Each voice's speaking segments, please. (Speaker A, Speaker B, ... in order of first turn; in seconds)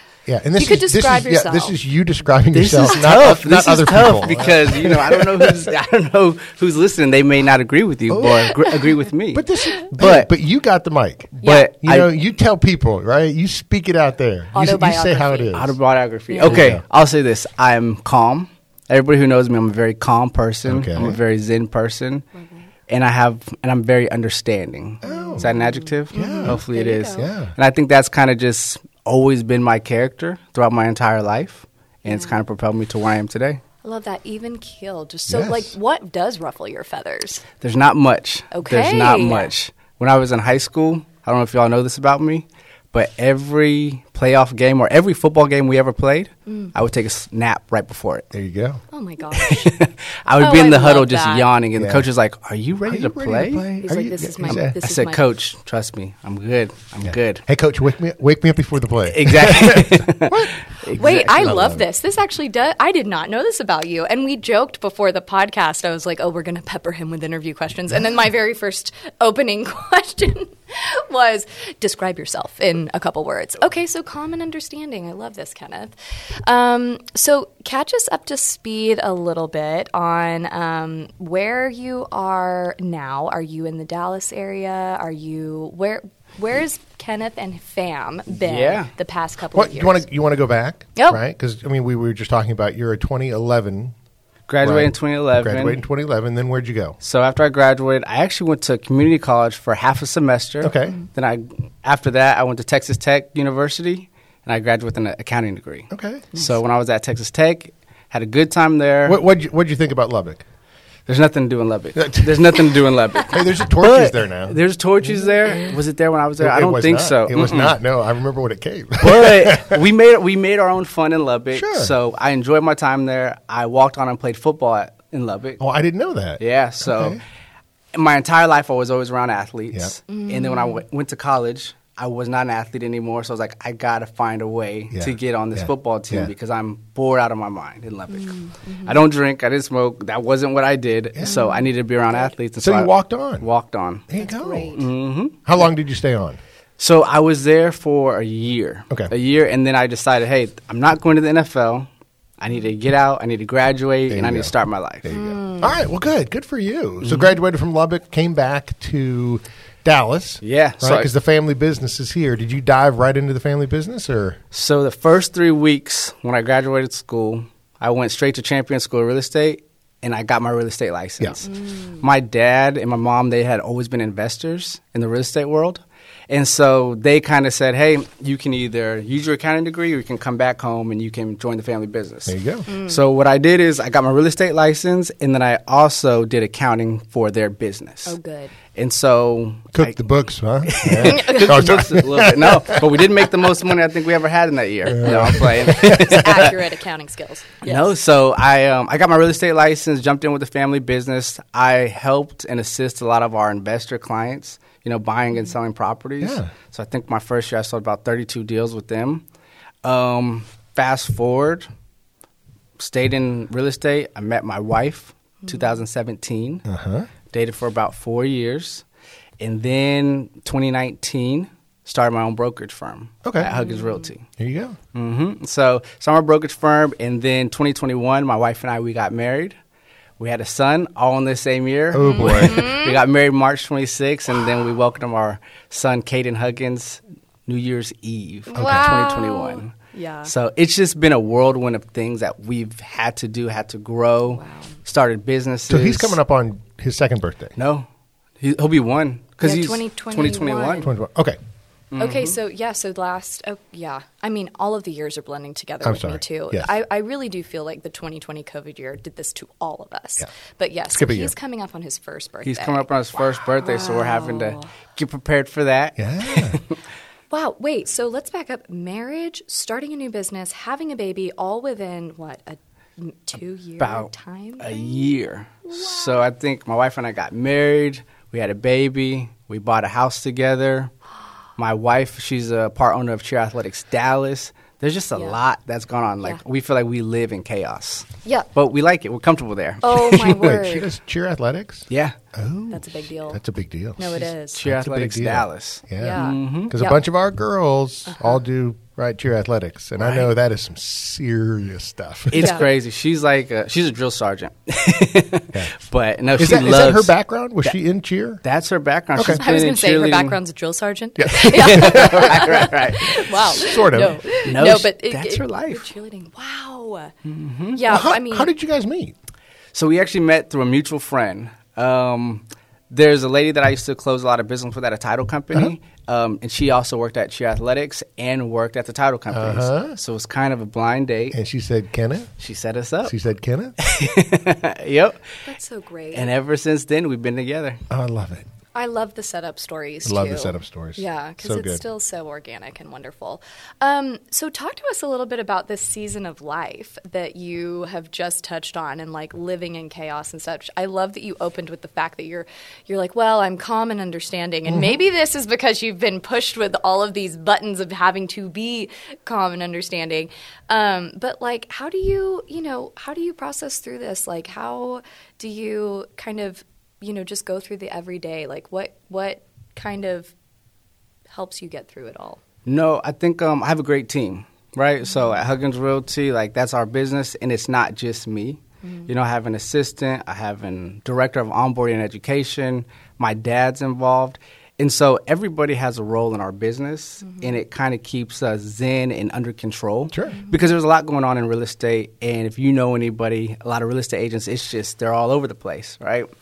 Speaker A: 0.3-5.7, 8.1-8.7, 9.3-15.8, 16.4-16.8, 20.7-21.2, 25.0-25.5, 26.1-26.6, 27.2-27.5, 35.3-35.7, 48.3-48.8, 51.8-52.1, 52.9-54.7, 57.0-61.8, 89.5-93.9, 94.6-97.0, 100.6-101.0, 105.9-106.3, 109.1-110.4, 112.0-115.8, 116.4-119.8, 121.5-122.0, 125.6-127.2, 134.9-136.3, 142.6-143.5, 144.1-144.8, 145.4-146.4, 154.1-154.5, 155.0-164.4, 182.3-182.7, 189.7-193.0, 194.9-196.5, 206.2-206.5, 216.7-217.1, 223.2-223.5, 224.4-224.8, 231.9-232.7, 238.6-239.0, 245.7-247.6, 250.8-251.4, 255.8-256.7, 260.9-261.3, 266.0-266.6, 290.0-302.5, 306.4-308.4, 309.2-309.4, 311.2-312.6, 313.1-314.3, 317.9-319.1, 329.3-330.0, 331.3-332.3, 333.1-333.8, 337.9-338.5, 340.1-341.8, 354.7-355.0, 390.1-390.4
Speaker B: 0.6-1.8, 11.4-11.7, 14.5-15.6, 16.3-16.6, 22.4-22.7, 25.0-27.3, 32.1-32.4, 33.8-37.5, 38.5-39.5, 48.9-49.7, 50.4-51.5, 53.8-55.2, 60.9-90.0, 91.0-91.2, 130.1-130.8, 138.2-139.0, 141.2-142.3, 144.2-144.9, 155.1-155.8, 171.4-172.0, 182.7-183.0, 188.1-188.6, 191.1-191.7, 194.9-197.9, 223.4-224.1, 232.0-233.0, 238.5-240.3, 244.3-244.7, 249.4-250.9, 252.0-262.9, 263.4-264.7, 267.3-276.3, 289.8-290.9, 292.7-293.4, 294.0-294.6, 296.0-297.0, 298.1-298.4, 302.4-302.6, 309.2-317.1, 317.8-318.5, 335.5-336.3, 338.8-370.3, 371.3-372.4
Speaker C: 2.5-10.3, 11.4-12.1, 15.5-22.3, 22.9-33.6, 37.6-48.3, 49.3-53.7, 54.4-57.4, 59.1-61.6, 88.4-88.9, 94.5-95.8, 97.0-109.2, 111.1-117.8, 119.0-125.6, 126.4-127.2, 127.9-144.1, 144.8-145.4, 146.8-151.9, 152.4-155.1, 157.1-157.3, 160.4-161.1, 164.5-188.2, 188.7-189.9, 190.7-196.6, 197.7-209.2, 209.8-211.7, 212.8-216.6, 217.3-218.8, 219.4-224.2, 224.9-229.6, 230.2-246.2, 247.6-247.9, 248.4-250.9, 251.9-252.4, 262.4-266.8, 273.8-280.9, 281.6-290.0, 291.9-292.1, 294.5-296.7, 302.3-307.1, 308.4-310.4, 311.3-313.4, 314.4-315.9, 317.2-317.8, 319.7-331.4, 332.4-333.1, 333.8-335.2, 336.1-337.8, 372.7-396.3